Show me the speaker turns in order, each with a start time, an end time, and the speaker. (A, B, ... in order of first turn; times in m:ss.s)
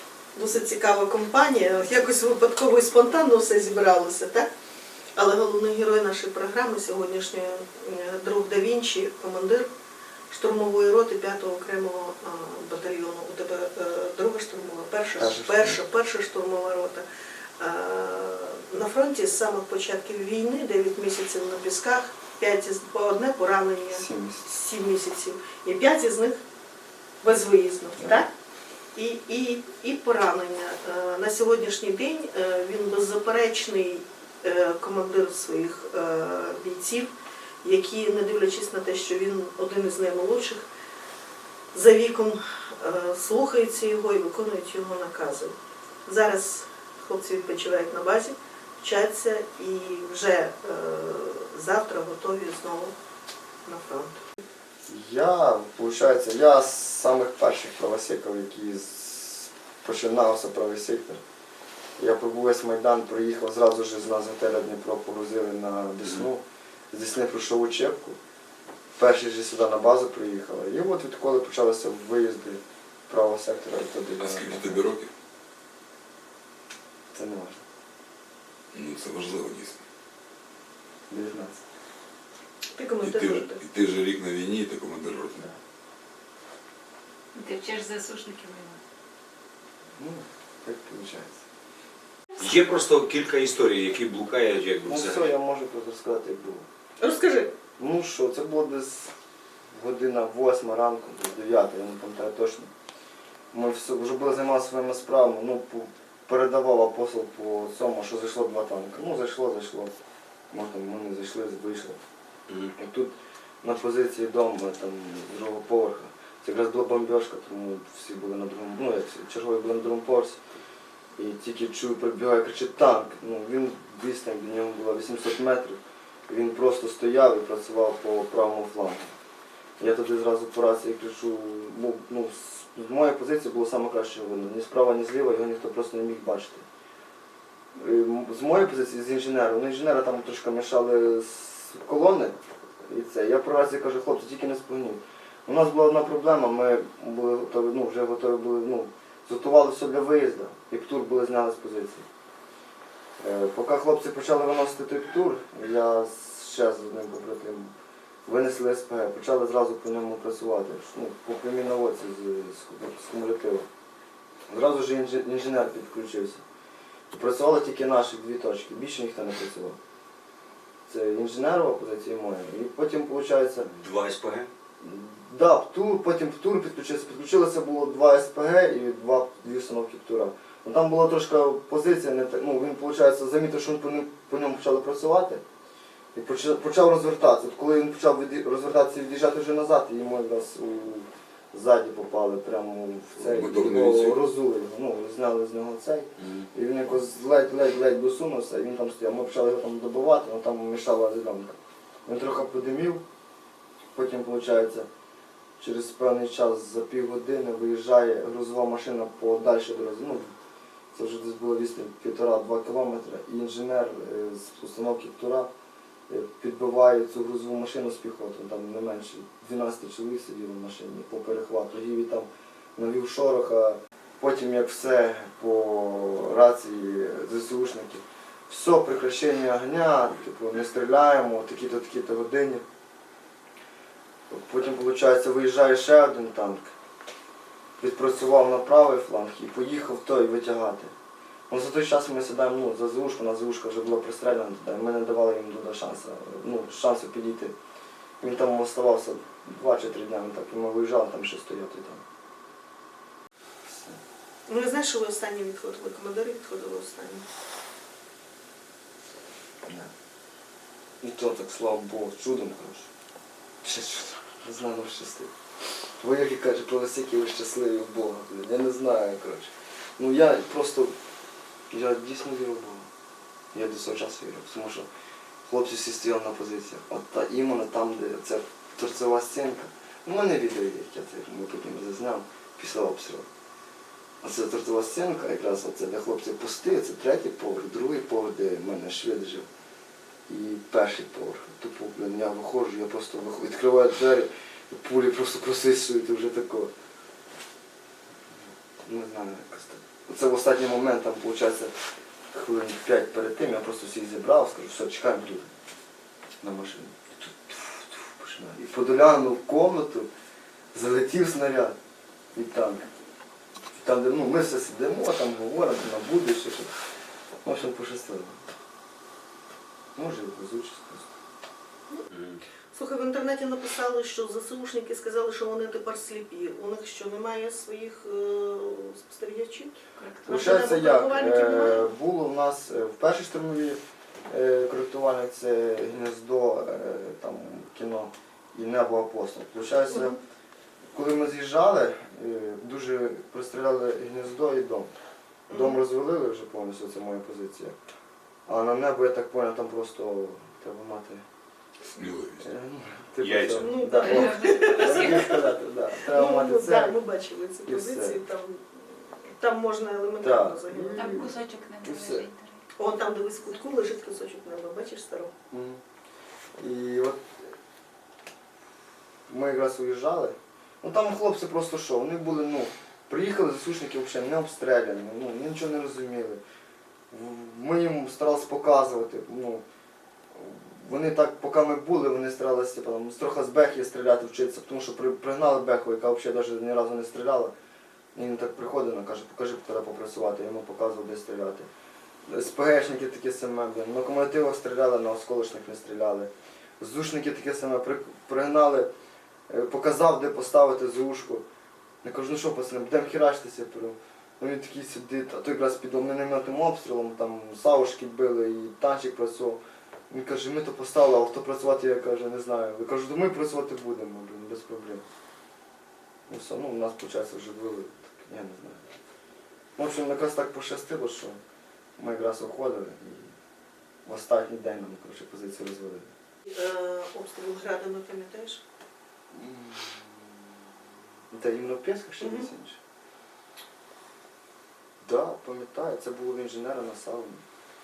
0:00.4-0:04.5 A
0:05.2-0:09.7 A
0:10.3-0:17.0 A
0:15.2-0:15.8 B
0:17.6-0:26.4 A
0:23.9-0:24.5 B
0:27.2-0:28.3 A
0:28.0-0:28.2 B
0:29.0-0:37.1 A
0:37.6-0:40.7 A
0:41.7-0:45.5 A
0:46.1-0:52.9 A
0:53.6-0:54.2 A
0:54.8-1:01.2 B
1:02.0-1:08.2 B
1:09.0-1:14.9 B
1:14.2-1:15.1 C
1:17.1-1:17.6 B
1:18.7-1:19.8 C
1:21.1-1:21.6 B
1:22.7-1:23.6 A
1:23.0-1:25.5 C
1:27.4-1:28.8 D
1:30.0-1:31.4 B
1:32.4-1:35.3 E
1:34.8-1:36.7 B
1:37.0-1:37.5 A
1:37.8-1:39.1 B
1:39.8-1:42.7 B
1:43.5-1:49.9 B
1:50.5-1:52.0 B
1:52.8-2:00.4 B
2:01.2-2:09.1 B
2:09.8-2:16.6 B
2:17.8-2:32.0 B
2:33.2-2:37.7 B
2:38.3-2:43.7 B
2:44.5-2:46.4 B
2:47.1-2:49.8 B
2:50.9-2:53.7 B
2:53.6-2:54.5 E
2:54.8-3:05.4 B
3:06.2-3:23.0 B
3:13.2-3:14.2 C
3:23.9-3:24.9 B
3:25.6-3:30.3 B
3:30.9-3:35.5 B
3:36.1-3:52.6 B
3:54.3-3:56.7 B
3:57.8-4:00.9 B
4:01.5-4:07.6 B
4:08.2-4:12.0 B
4:13.6-4:14.0 B
4:14.5-4:17.2 A
4:21.0-4:22.9 B
4:23.6-4:25.3 B
4:26.0-4:30.9 B
4:31.7-4:32.9 B
4:33.5-4:34.9 B
4:35.4-4:43.3 B
4:44.2-4:49.5 B
4:50.3-4:56.7 B
4:58.9-5:01.7 B
5:02.3-5:05.5 B
5:06.4-5:10.1 B
5:10.7-5:11.8 B
5:12.3-5:12.9 B
5:13.7-5:16.7 B
5:17.4-5:18.4 B
5:20.0-5:21.1 B
5:22.1-5:22.4 E
5:22.7-5:31.9 A
5:30.0-5:30.3 D
5:30.3-5:40.2 B
5:39.9-5:40.2 A
5:40.9-5:44.9 B
5:45.5-5:45.8 A
5:45.5-5:47.8 B
5:48.5-5:51.2 B
5:51.9-5:52.5 C
5:52.4-5:57.0 B
5:53.2-5:53.6 E
5:53.6-6:01.0 A
5:54.0-5:55.2 D
5:57.7-5:58.2 B
6:00.2-6:02.3 B
6:00.9-6:02.6 D
6:02.8-6:05.3 A
6:05.5-6:05.8 B
6:06.6-6:07.5 B
6:09.3-6:16.4 B
6:17.1-6:19.6 B
6:20.3-6:27.5 B
6:28.2-6:31.7 B
6:32.3-6:38.9 B
6:39.5-6:41.4 B
6:42.0-6:55.0 B
6:56.3-6:58.9 B
6:59.8-7:01.4 B
7:02.0-7:03.4 B
7:04.1-7:06.1 B
7:06.5-7:08.6 A
7:09.3-7:10.5 B
7:11.3-7:12.8 B
7:12.2-7:12.5 A
7:15.0-7:17.4 B